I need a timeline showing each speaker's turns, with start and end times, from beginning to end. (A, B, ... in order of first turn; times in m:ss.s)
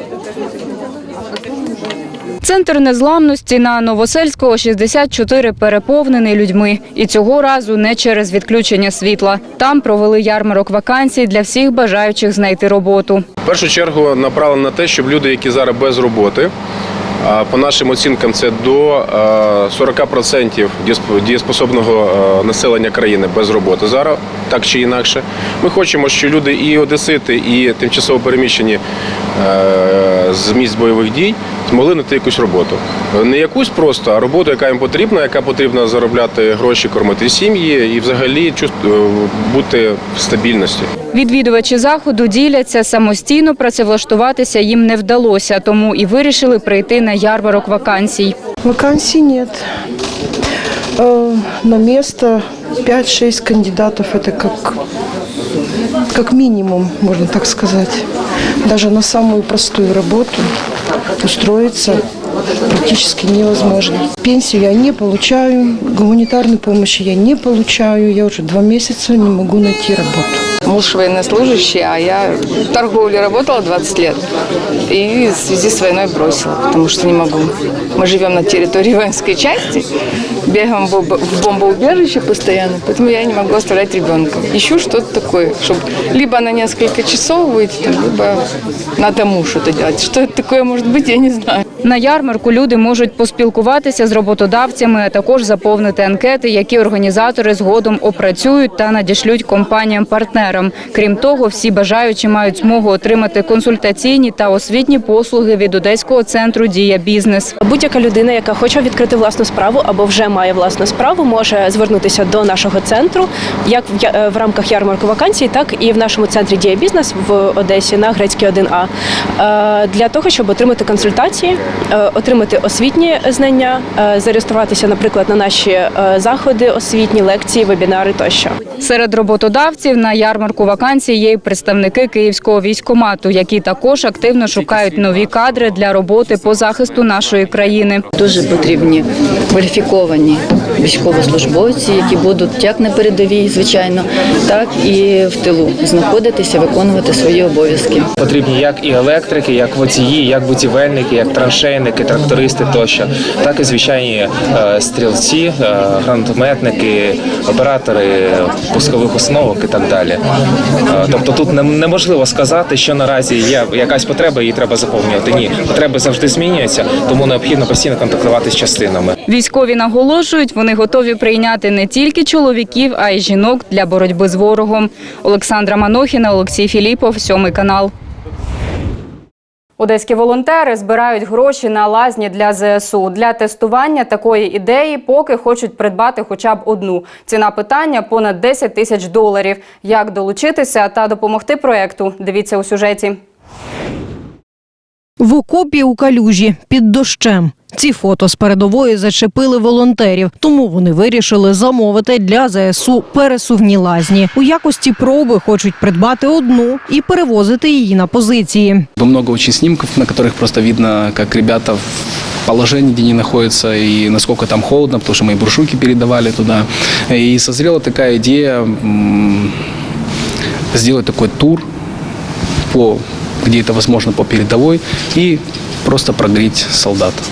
0:02.4-0:13.2 A
0:13.4-0:16.5 B
0:17.2-0:28.8 B
0:29.4-0:40.9 B
0:41.1-0:48.3 A
0:48.6-0:49.6 C
0:51.0-0:54.8 C
0:56.1-0:58.0 C
0:58.6-1:00.4 C
1:01.2-1:02.0 C
1:02.7-1:10.4 C
1:10.6-1:14.2 D
1:14.9-1:19.8 D
1:20.5-1:28.4 D
1:29.0-1:31.6 D
1:31.8-1:47.6 A
1:47.6-2:08.5 E
2:08.8-2:18.0 A
2:18.1-2:28.1 F
2:28.2-2:40.2 G
2:40.9-2:49.2 G
2:49.3-2:57.9 A
2:59.8-3:13.2 A
3:15.2-3:28.9 H
3:29.0-3:39.5 I
3:40.7-3:41.6 I
3:42.7-3:47.2 I